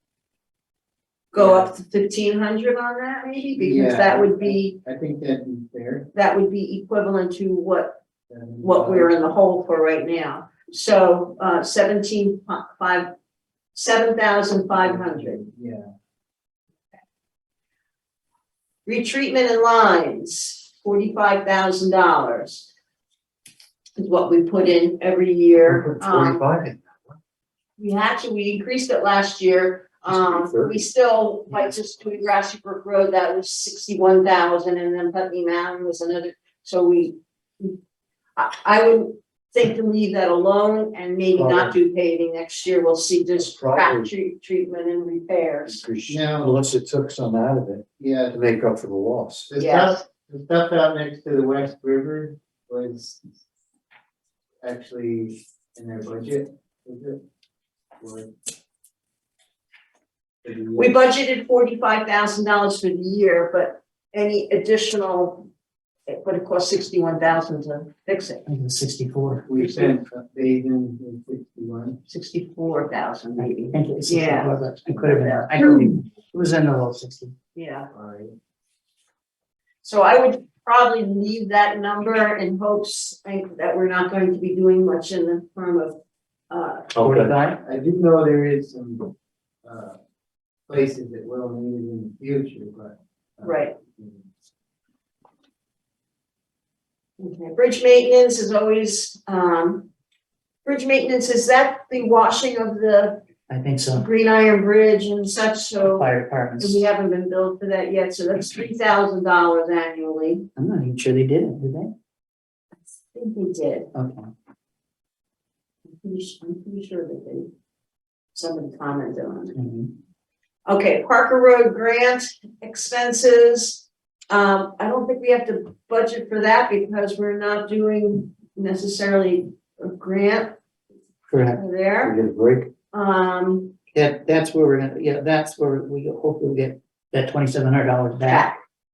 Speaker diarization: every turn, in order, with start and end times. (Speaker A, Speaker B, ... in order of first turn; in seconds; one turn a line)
Speaker A: 1.3-4.7
Speaker B: 1.3-1.7
Speaker B: 3.6-6.1
Speaker A: 6.1-8.0
Speaker B: 8.3-9.2
Speaker A: 8.6-13.1
Speaker A: 13.7-15.4
Speaker B: 14.8-15.9
Speaker A: 18.9-22.7
Speaker A: 24.0-26.4
Speaker C: 25.6-27.1
Speaker A: 27.8-37.8
Speaker C: 30.1-30.8
Speaker A: 38.4-45.8
Speaker C: 41.3-41.7
Speaker C: 43.4-44.1
Speaker C: 45.6-49.5
Speaker B: 46.1-46.6
Speaker B: 48.0-48.4
Speaker B: 49.5-53.2
Speaker A: 49.6-49.9
Speaker B: 54.6-57.2
Speaker B: 58.0-58.3
Speaker B: 60.4-60.9
Speaker A: 60.8-65.5
Speaker A: 66.1-68.4
Speaker D: 68.5-69.5
Speaker B: 69.5-72.0
Speaker A: 69.6-69.9
Speaker A: 72.1-75.5
Speaker D: 73.4-77.3
Speaker A: 77.5-77.9
Speaker B: 77.9-78.3
Speaker A: 79.8-86.0
Speaker A: 86.5-86.9
Speaker C: 86.9-87.3
Speaker D: 87.0-87.6
Speaker B: 87.6-89.1
Speaker B: 89.6-90.0
Speaker B: 90.7-94.2
Speaker A: 93.4-93.7
Speaker A: 97.2-99.9
Speaker A: 100.6-103.2
Speaker D: 103.5-104.0
Speaker A: 103.9-110.5
Speaker D: 105.8-106.8
Speaker D: 110.6-111.9
Speaker A: 112.9-113.9
Speaker D: 113.9-114.3
Speaker A: 116.0-117.5
Speaker A: 118.3-119.6
Speaker D: 119.5-119.9
Speaker A: 120.7-130.6
Speaker D: 131.3-131.6
Speaker A: 131.5-132.2
Speaker C: 132.0-132.7
Speaker A: 132.9-133.7
Speaker D: 133.9-138.5
Speaker A: 138.2-138.6